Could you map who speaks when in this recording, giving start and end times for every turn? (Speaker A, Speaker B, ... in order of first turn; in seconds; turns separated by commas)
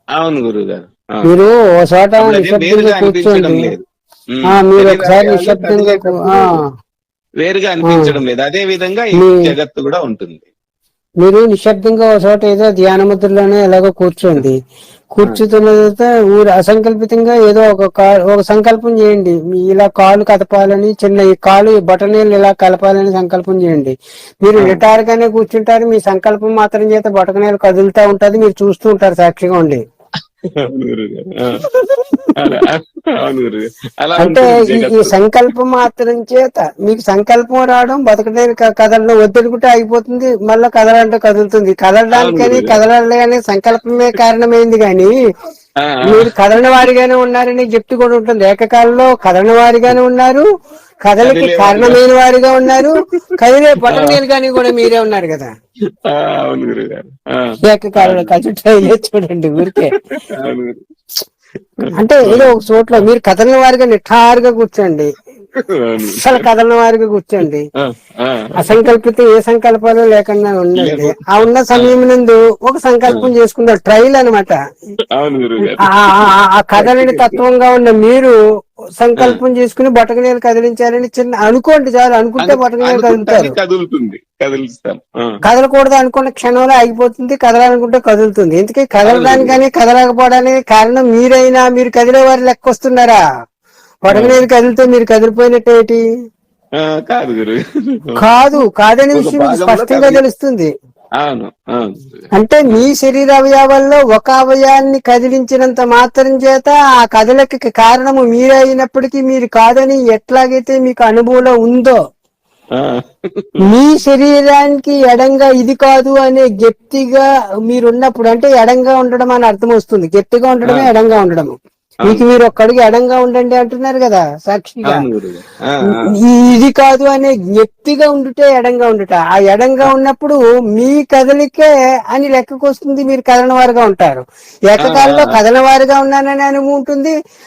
Speaker A: 0.1-1.3, Speaker B: 1.2-3.7, Speaker A: 2.2-6.6, Speaker B: 4.5-6.6, Speaker A: 7.4-10.4, Speaker B: 7.8-8.1, Speaker B: 9.1-9.5, Speaker B: 11.2-14.6, Speaker B: 15.1-29.8, Speaker A: 24.6-24.8, Speaker A: 30.6-31.6, Speaker A: 32.4-35.1, Speaker B: 34.2-45.1, Speaker A: 42.1-42.8, Speaker A: 45.8-46.3, Speaker B: 46.0-50.4, Speaker B: 51.0-55.5, Speaker A: 51.2-52.0, Speaker A: 52.7-54.9, Speaker A: 56.0-58.3, Speaker B: 57.6-59.9, Speaker A: 59.7-60.8, Speaker A: 61.8-63.0, Speaker B: 61.9-65.1, Speaker A: 65.6-66.4, Speaker B: 66.0-67.6, Speaker A: 67.8-68.7, Speaker B: 68.6-74.6, Speaker A: 70.8-71.2, Speaker A: 75.2-77.4, Speaker B: 75.8-78.3, Speaker B: 79.0-83.5, Speaker A: 82.4-85.4, Speaker B: 85.4-93.2, Speaker A: 89.0-89.6, Speaker B: 94.0-96.0, Speaker A: 94.1-94.4, Speaker A: 96.8-98.2, Speaker B: 98.2-100.7, Speaker A: 99.1-100.2, Speaker A: 101.2-102.8, Speaker B: 102.3-112.0, Speaker A: 112.8-113.6, Speaker B: 113.6-125.0, Speaker A: 120.6-120.9, Speaker A: 124.8-126.0, Speaker B: 125.9-137.1, Speaker A: 134.8-135.4